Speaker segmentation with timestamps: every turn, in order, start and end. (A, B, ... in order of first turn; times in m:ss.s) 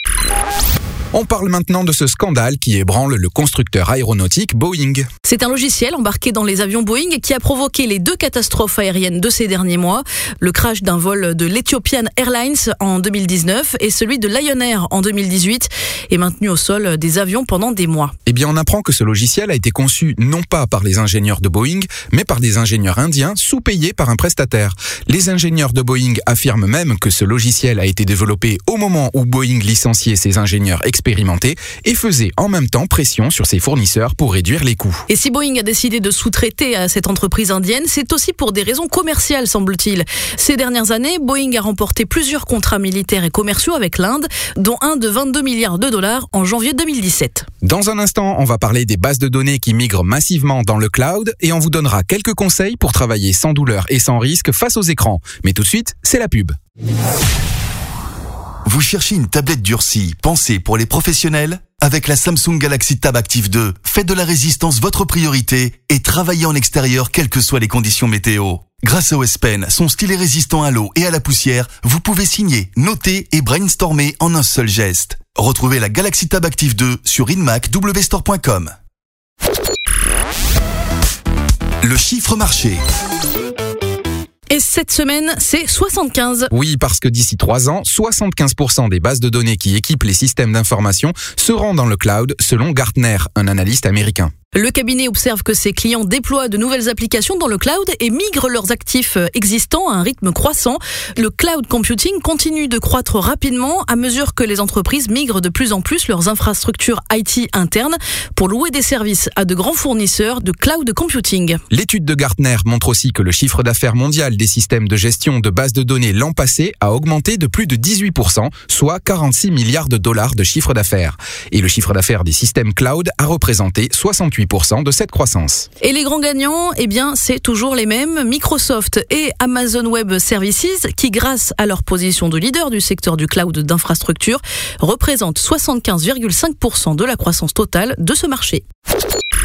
0:01.1-0:05.0 A
0:05.2-0:18.1 B
0:18.2-0:35.0 A
0:35.1-0:47.4 B
0:47.6-0:56.6 A
0:58.6-1:18.7 C
1:21.8-1:22.8 C
1:24.5-1:26.5 B
1:26.5-1:34.3 A
1:34.5-1:51.6 B
1:51.7-2:05.7 A
2:05.8-2:18.6 B